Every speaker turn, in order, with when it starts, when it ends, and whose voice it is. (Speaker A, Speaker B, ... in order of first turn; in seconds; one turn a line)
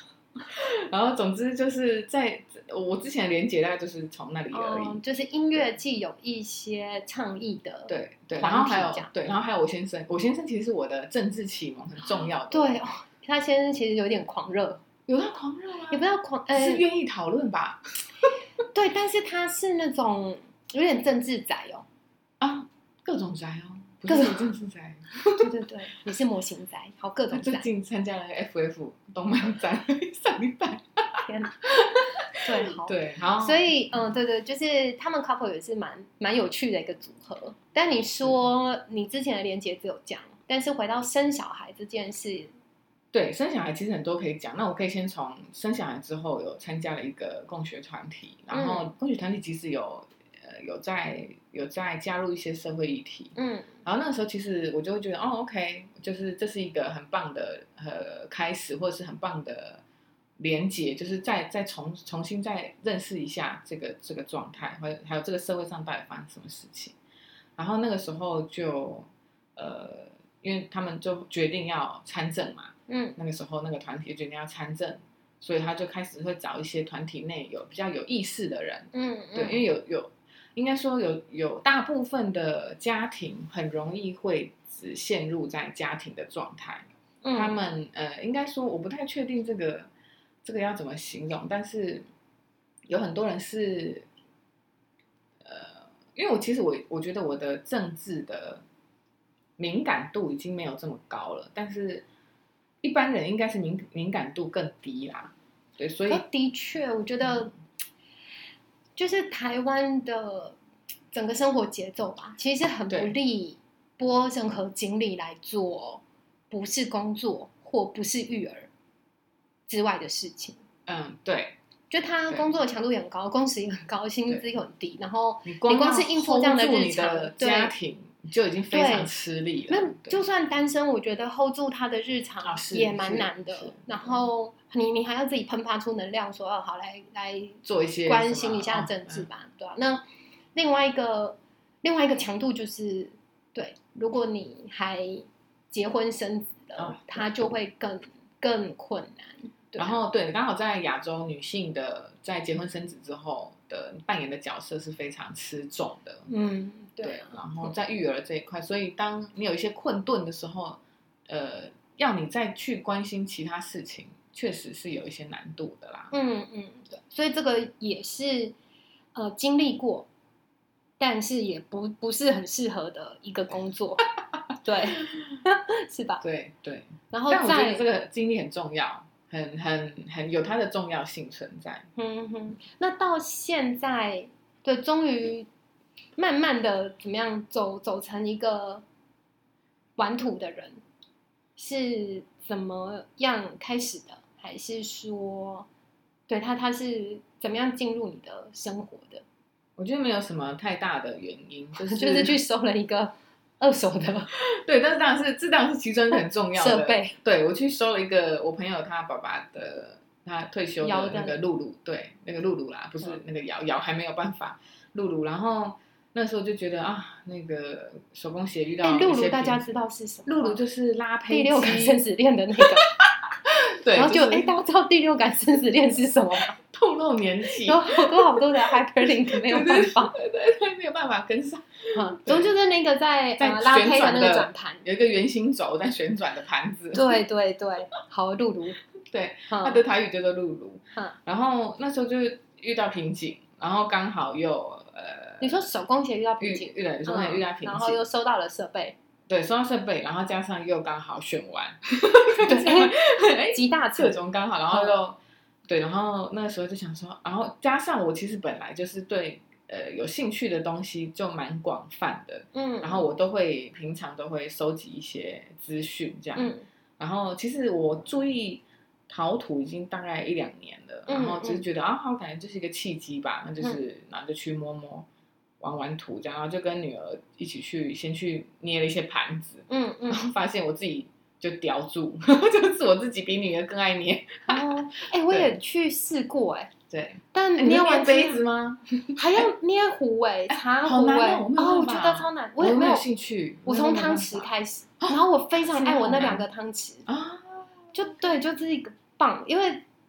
Speaker A: 0.4-5.0
Speaker B: 4.5-9.1
Speaker A: 7.9-12.8
Speaker B: 12.5-14.8
Speaker A: 15.1-17.8
Speaker B: 15.9-16.8
Speaker B: 18.7-21.9
Speaker A: 22.4-25.5
Speaker B: 24.1-24.5
Speaker B: 25.4-27.7
Speaker A: 27.3-34.0
Speaker B: 31.3-31.6
Speaker B: 32.4-42.5
Speaker A: 43.1-59.8
Speaker B: 48.5-48.9
Speaker B: 53.4-53.8
Speaker A: 60.4-67.0
Speaker A: 67.6-89.9
Speaker B: 72.9-73.2
Speaker B: 78.9-79.6
Speaker B: 87.2-87.6
Speaker A: 90.4-92.0
Speaker A: 92.9-94.1
Speaker A: 95.4-98.6
Speaker A: 99.6-102.0
Speaker A: 102.8-106.2
Speaker B: 106.1-107.5
Speaker B: 109.0-110.6
Speaker B: 111.1-118.7
Speaker A: 112.9-113.2
Speaker B: 119.7-120.6
Speaker A: 120.9-121.6
Speaker B: 121.9-127.7
Speaker A: 122.3-122.5
Speaker A: 125.4-130.2
Speaker B: 128.7-129.1
Speaker B: 129.7-140.0
Speaker A: 132.4-134.3
Speaker A: 137.6-139.3
Speaker B: 140.6-150.0
Speaker A: 146.8-147.4
Speaker A: 149.8-156.3
Speaker B: 156.3-157.7
Speaker A: 157.0-166.1
Speaker B: 166.1-168.6
Speaker B: 169.2-170.1
Speaker B: 171.0-174.1
Speaker B: 174.6-176.2
Speaker A: 176.2-181.9
Speaker B: 177.1-177.8
Speaker B: 182.0-185.5
Speaker B: 186.2-188.8
Speaker B: 190.0-190.8
Speaker B: 191.6-195.7
Speaker B: 196.3-199.2
Speaker A: 199.8-202.4
Speaker B: 201.8-204.3
Speaker A: 204.3-219.7
Speaker B: 206.1-207.2
Speaker B: 210.8-211.4
Speaker B: 218.8-220.6
Speaker A: 220.3-222.0
Speaker B: 221.3-222.9
Speaker A: 222.9-224.5
Speaker B: 223.9-226.6
Speaker A: 226.6-228.5
Speaker B: 227.6-230.2
Speaker A: 229.0-232.5
Speaker B: 231.9-234.9
Speaker A: 233.4-237.1
Speaker B: 236.9-238.8
Speaker A: 239.1-245.7
Speaker B: 239.5-239.8
Speaker B: 245.4-249.0
Speaker A: 246.4-248.0
Speaker A: 249.3-275.1
Speaker B: 252.4-254.2
Speaker B: 254.7-255.0
Speaker B: 262.5-263.1
Speaker B: 266.4-266.6
Speaker B: 271.1-271.6
Speaker A: 275.6-285.6
Speaker B: 279.7-280.2
Speaker B: 284.5-286.7
Speaker A: 286.9-289.5
Speaker B: 287.3-288.4
Speaker B: 289.2-293.1
Speaker A: 290.5-294.5
Speaker B: 293.7-297.1
Speaker A: 295.0-296.5
Speaker A: 297.1-297.9
Speaker B: 297.9-299.8